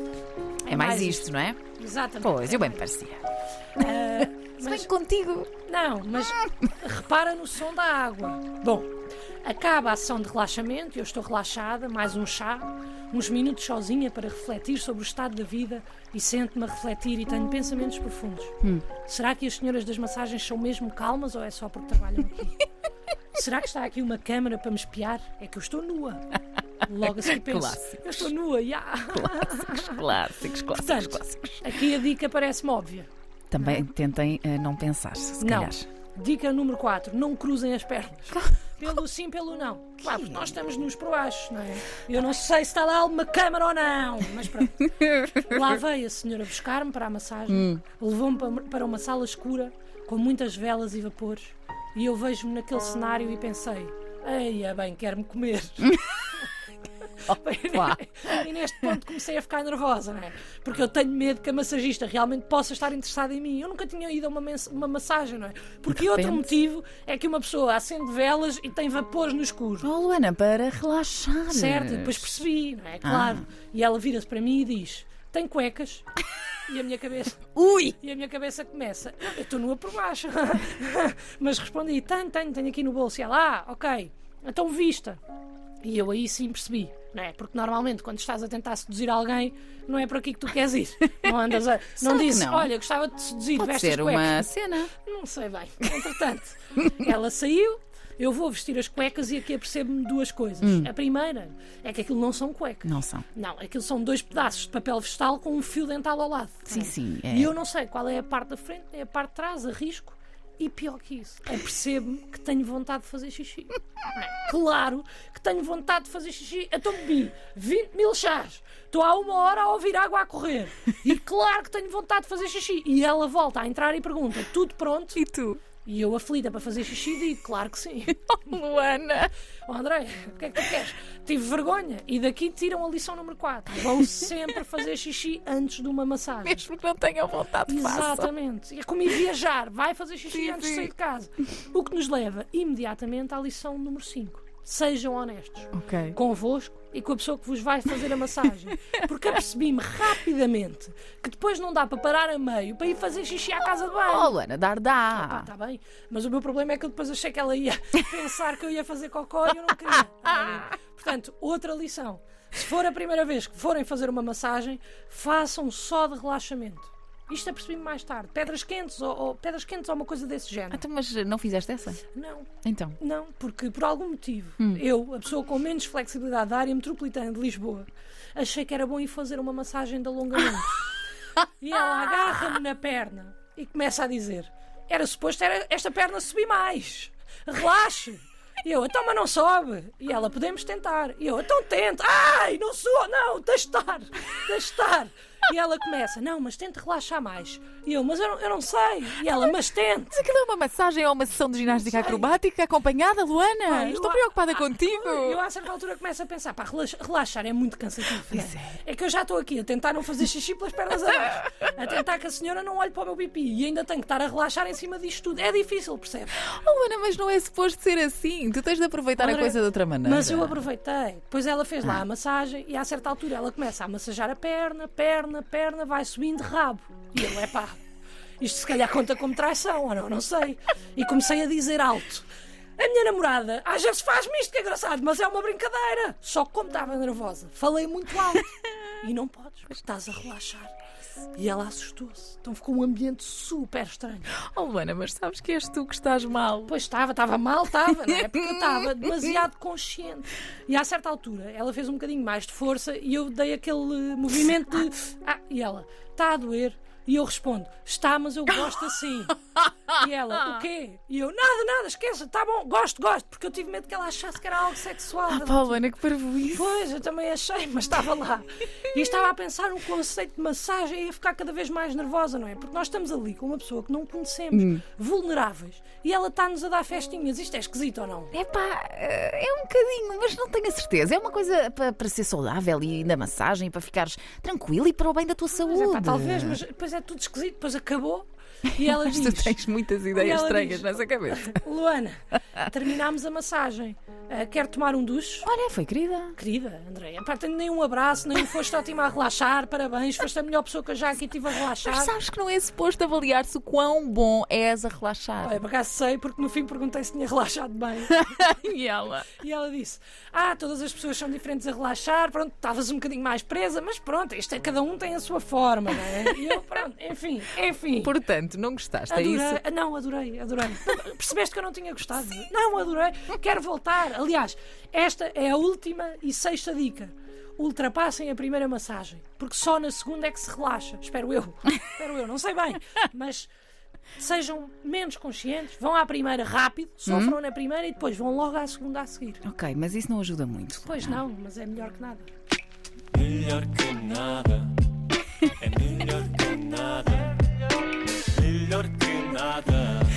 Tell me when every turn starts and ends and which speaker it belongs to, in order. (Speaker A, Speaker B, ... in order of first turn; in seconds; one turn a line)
Speaker A: 0.6-2.8
Speaker B: 0.7-1.6
Speaker B: 2.2-3.2
Speaker A: 3.8-4.9
Speaker B: 4.6-5.5
Speaker A: 5.7-22.6
Speaker A: 23.3-26.3
Speaker A: 26.9-30.1
Speaker B: 27.0-28.3
Speaker B: 29.1-31.7
Speaker A: 30.7-33.9
Speaker B: 33.5-35.8
Speaker A: 35.4-56.0
Speaker B: 45.0-45.5
Speaker B: 47.5-47.8
Speaker A: 57.2-69.9
Speaker B: 57.3-58.5
Speaker B: 65.9-66.5
Speaker B: 69.8-72.3
Speaker A: 71.5-76.1
Speaker B: 73.0-73.4
Speaker A: 76.7-85.2
Speaker B: 77.5-78.0
Speaker A: 85.8-125.2
Speaker B: 92.0-92.7
Speaker B: 93.6-94.9
Speaker B: 100.6-100.9
Speaker B: 102.9-103.2
Speaker B: 106.7-107.6
Speaker B: 125.2-125.6
Speaker A: 125.8-128.2
Speaker B: 128.3-129.3
Speaker A: 129.7-136.7
Speaker B: 136.4-138.3
Speaker A: 137.7-154.3
Speaker B: 140.3-140.9
Speaker B: 145.7-146.2
Speaker B: 154.1-155.5
Speaker A: 155.1-170.8
Speaker B: 170.7-172.0
Speaker A: 172.1-180.8
Speaker B: 172.6-173.0
Speaker A: 181.4-200.2
Speaker B: 200.1-205.4
Speaker A: 201.8-202.3
Speaker A: 203.7-216.4
Speaker B: 208.3-208.7
Speaker B: 216.4-220.6
Speaker A: 219.2-227.8
Speaker A: 228.4-232.3
Speaker A: 232.8-240.8
Speaker A: 241.3-244.3
Speaker B: 244.3-246.7
Speaker A: 246.7-259.4
Speaker B: 248.1-249.3
Speaker A: 259.9-265.8
Speaker B: 265.3-266.7
Speaker A: 266.5-278.3
Speaker B: 274.5-274.8
Speaker B: 278.3-286.6
Speaker A: 285.6-289.6
Speaker B: 288.7-291.6
Speaker A: 290.1-295.5
Speaker B: 295.4-296.4
Speaker A: 296.4-302.1
Speaker B: 301.8-305.6
Speaker A: 305.4-308.5
Speaker B: 308.1-309.3
Speaker A: 309.3-318.1
Speaker B: 318.0-319.6
Speaker A: 319.1-333.5
Speaker A: 334.2-339.4
Speaker B: 337.1-337.4
Speaker B: 339.4-341.2
Speaker A: 340.9-342.3
Speaker C: 343.1-344.7
Speaker C: 345.6-347.2
Speaker C: 348.4-349.9